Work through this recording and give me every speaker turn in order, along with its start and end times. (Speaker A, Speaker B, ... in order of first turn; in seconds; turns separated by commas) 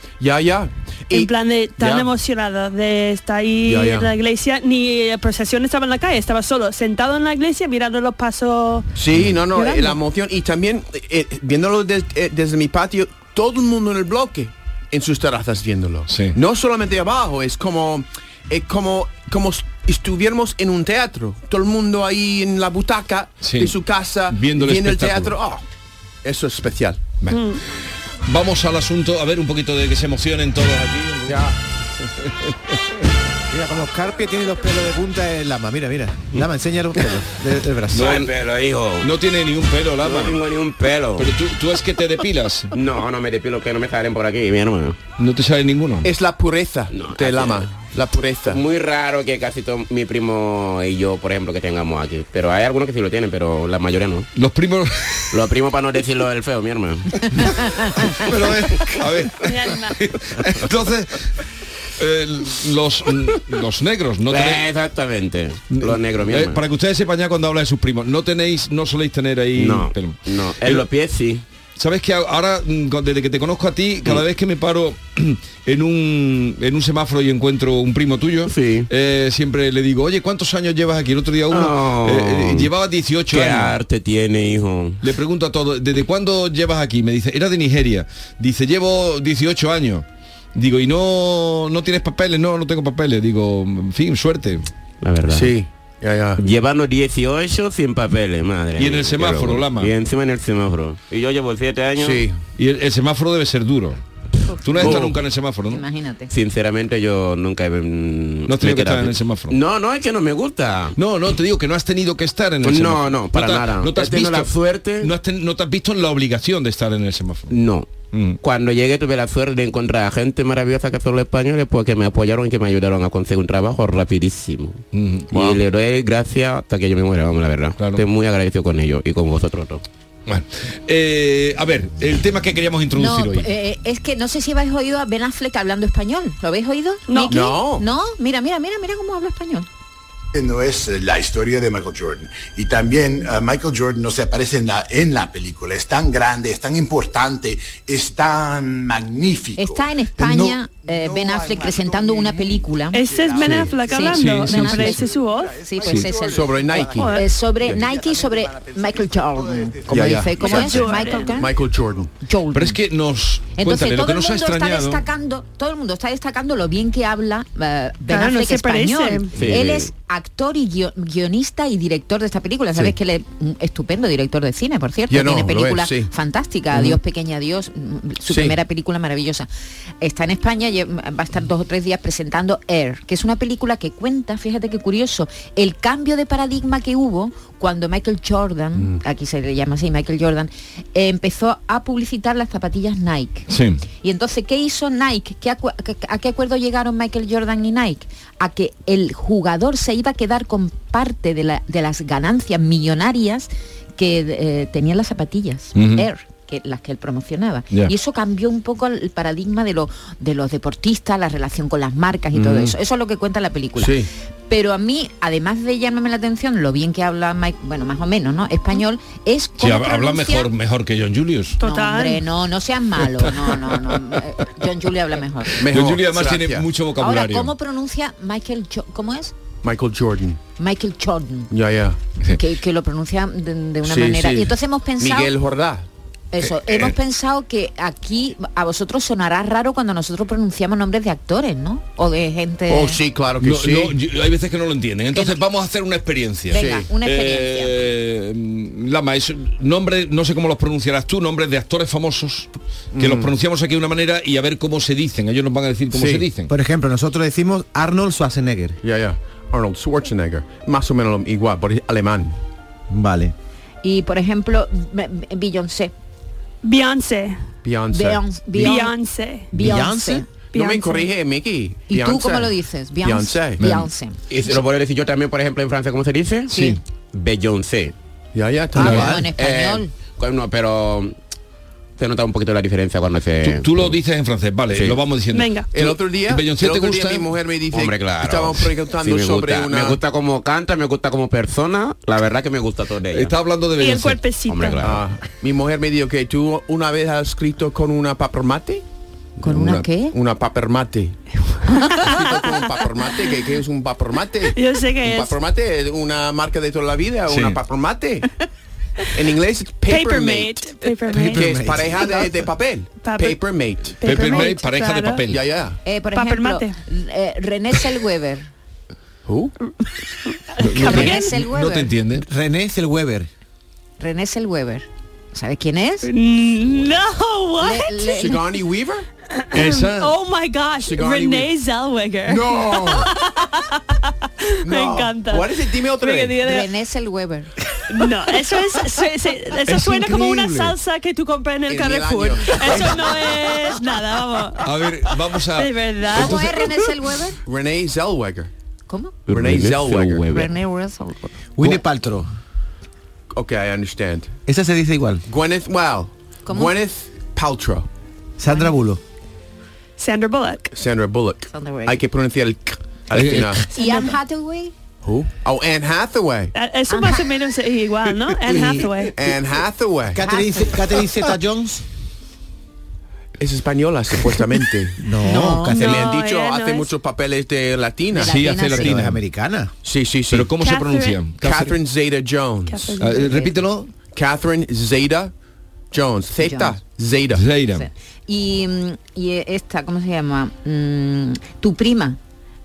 Speaker A: 0.2-2.1, Speaker B: 1.1-8.9, Speaker A: 3.6-4.1, Speaker A: 8.9-25.6, Speaker B: 9.5-10.0, Speaker C: 16.1-16.4, Speaker C: 23.4-23.8, Speaker C: 24.3-25.4, Speaker A: 26.2-27.0, Speaker C: 27.2-27.6, Speaker B: 27.3-27.6, Speaker C: 28.2-31.4, Speaker A: 31.2-31.5, Speaker C: 32.2-32.5, Speaker D: 33.5-38.2, Speaker E: 37.9-39.1, Speaker C: 37.9-38.3, Speaker C: 39.0-40.4, Speaker E: 40.0-41.3, Speaker C: 41.2-42.7, Speaker E: 42.7-45.0, Speaker C: 45.2-46.1, Speaker A: 46.0-48.6, Speaker E: 46.9-47.7, Speaker E: 48.5-54.3, Speaker C: 54.3-55.4, Speaker E: 55.3-57.4, Speaker C: 57.3-61.3, Speaker B: 59.4-60.0, Speaker C: 62.0-64.6, Speaker E: 64.3-66.6, Speaker C: 65.7-70.8, Speaker E: 69.5-71.4, Speaker C: 71.8-83.8, Speaker E: 78.5-78.9, Speaker E: 81.5-82.7, Speaker E: 83.3-85.0, Speaker C: 85.0-94.7, Speaker E: 95.0-95.5, Speaker A: 95.3-96.4, Speaker E: 96.4-102.3, Speaker C: 98.8-99.9, Speaker A: 102.0-102.4, Speaker C: 102.6-104.0, Speaker C: 104.6-105.8, Speaker F: 104.7-105.0, Speaker A: 104.8-105.1, Speaker E: 104.8-105.1, Speaker F: 105.7-106.3, Speaker E: 106.3-111.0, Speaker C: 108.5-109.5, Speaker C: 111.0-117.5, Speaker E: 112.6-115.1, Speaker E: 117.5-129.8, Speaker C: 118.1-118.4, Speaker C: 124.9-125.3, Speaker C: 127.8-128.0, Speaker C: 130.3-133.5, Speaker F: 132.9-139.7, Speaker B: 137.1-137.5, Speaker A: 137.3-137.8, Speaker G: 140.3-149.8, Speaker F: 149.6-161.6, Speaker D: 150.2-150.5, Speaker B: 152.9-155.6, Speaker C: 153.4-155.0, Speaker C: 155.8-156.1, Speaker A: 156.3-157.8, Speaker B: 156.9-157.3, Speaker A: 159.8-162.1, Speaker B: 160.3-161.4, Speaker F: 162.2-162.8, Speaker C: 162.5-165.0, Speaker F: 163.6-179.5, Speaker B: 168.1-169.3, Speaker E: 169.3-169.9, Speaker A: 175.1-176.1, Speaker A: 176.7-177.0, Speaker A: 178.3-178.6, Speaker F: 180.0-193.5, Speaker C: 193.5-193.8, Speaker F: 194.0-213.9, Speaker C: 205.7-206.1, Speaker A: 212.3-212.7, Speaker A: 213.8-214.1, Speaker F: 214.5-220.5, Speaker C: 219.6-221.6, Speaker B: 221.6-222.2, Speaker F: 221.6-225.6, Speaker C: 223.2-224.0, Speaker C: 225.6-227.5, Speaker A: 225.6-226.7, Speaker F: 227.0-229.3, Speaker A: 229.6-230.4, Speaker F: 230.6-231.5, Speaker A: 231.5-232.0, Speaker F: 232.3-235.3, Speaker A: 233.8-235.9, Speaker F: 236.3-243.0, Speaker C: 236.6-236.9, Speaker A: 242.7-243.9, Speaker C: 243.4-256.5, Speaker F: 245.1-245.4, Speaker F: 246.5-247.8, Speaker A: 246.5-246.9, Speaker A: 252.9-253.3, Speaker A: 255.9-256.3, Speaker D: 256.5-258.8, Speaker A: 258.8-262.4, Speaker D: 262.9-263.3, Speaker F: 263.8-265.9, Speaker B: 266.6-267.4, Speaker A: 267.6-268.8, Speaker F: 267.9-269.0, Speaker B: 268.6-269.6, Speaker F: 269.5-270.3, Speaker D: 269.5-270.2, Speaker A: 270.5-273.6, Speaker B: 270.5-271.1, Speaker F: 271.9-274.2, Speaker C: 273.6-273.9, Speaker E: 274.3-277.9, Speaker C: 276.5-276.8, Speaker A: 278.3-279.2, Speaker F: 278.8-279.9, Speaker C: 278.8-279.1, Speaker E: 279.4-281.1, Speaker E: 282.0-283.9, Speaker C: 283.4-287.3, Speaker A: 284.7-285.0, Speaker B: 285.3-285.7, Speaker A: 285.7-290.0, Speaker E: 287.7-293.3, Speaker C: 293.1-294.3, Speaker B: 293.8-294.8, Speaker E: 294.5-295.0, Speaker A: 294.8-298.8, Speaker F: 299.4-300.1, Speaker C: 299.5-299.9, Speaker A: 300.0-301.2, Speaker B: 301.9-302.4, Speaker A: 301.9-308.3, Speaker B: 304.5-305.4, Speaker C: 307.3-307.6, Speaker A: 309.1-314.5, Speaker B: 309.9-312.1, Speaker D: 311.1-312.4, Speaker B: 313.0-313.4, Speaker B: 314.0-315.2, Speaker C: 314.0-315.4, Speaker A: 315.3-315.8, Speaker F: 315.8-318.5, Speaker B: 316.1-316.8, Speaker A: 319.2-319.5, Speaker B: 320.5-321.4, Speaker C: 320.6-322.2, Speaker F: 320.7-321.9, Speaker D: 322.2-323.3, Speaker F: 324.0-326.1, Speaker B: 326.0-328.4, Speaker F: 327.6-328.4, Speaker A: 328.1-329.1, Speaker B: 329.3-336.7, Speaker C: 329.5-330.1, Speaker A: 330.8-331.5, Speaker A: 332.2-333.1, Speaker A: 334.6-336.4, Speaker F: 336.4-337.5, Speaker B: 337.9-344.7, Speaker C: 339.7-340.6, Speaker A: 341.7-343.4, Speaker C: 344.6-346.7, Speaker B: 345.5-346.4, Speaker F: 346.1-347.4, Speaker A: 347.4-348.5, Speaker F: 348.9-349.2, Speaker E: 349.3-350.5, Speaker A: 349.3-350.3, Speaker F: 350.3-351.4, Speaker D: 351.6-352.3, Speaker A: 353.3-354.3, Speaker D: 354.4-355.2, Speaker A: 355.2-357.9, Speaker F: 356.4-356.8, Speaker D: 358.4-359.0, Speaker B: 360.0-360.7, Speaker A: 360.7-363.6, Speaker F: 361.5-362.0, Speaker C: 363.1-363.6, Speaker F: 363.7-364.7, Speaker A: 365.0-366.5, Speaker B: 366.5-369.1, Speaker F: 366.9-367.2, Speaker D: 368.5-368.9, Speaker A: 369.1-370.2, Speaker D: 370.1-371.8, Speaker F: 370.2-370.8, Speaker A: 373.4-375.0, Speaker D: 375.0-376.0, Speaker F: 375.2-375.8, Speaker A: 375.7-378.5, Speaker B: 375.8-376.9, Speaker F: 378.1-379.0, Speaker C: 378.2-379.2, Speaker D: 378.8-379.7, Speaker A: 379.8-380.5, Speaker C: 380.3-381.8, Speaker B: 380.6-381.3, Speaker A: 381.3-383.0, Speaker B: 382.7-383.4, Speaker C: 383.0-383.9, Speaker F: 383.1-383.5, Speaker A: 384.1-385.3, Speaker A: 385.9-387.4, Speaker F: 386.4-386.8, Speaker C: 387.3-387.9, Speaker F: 387.7-392.2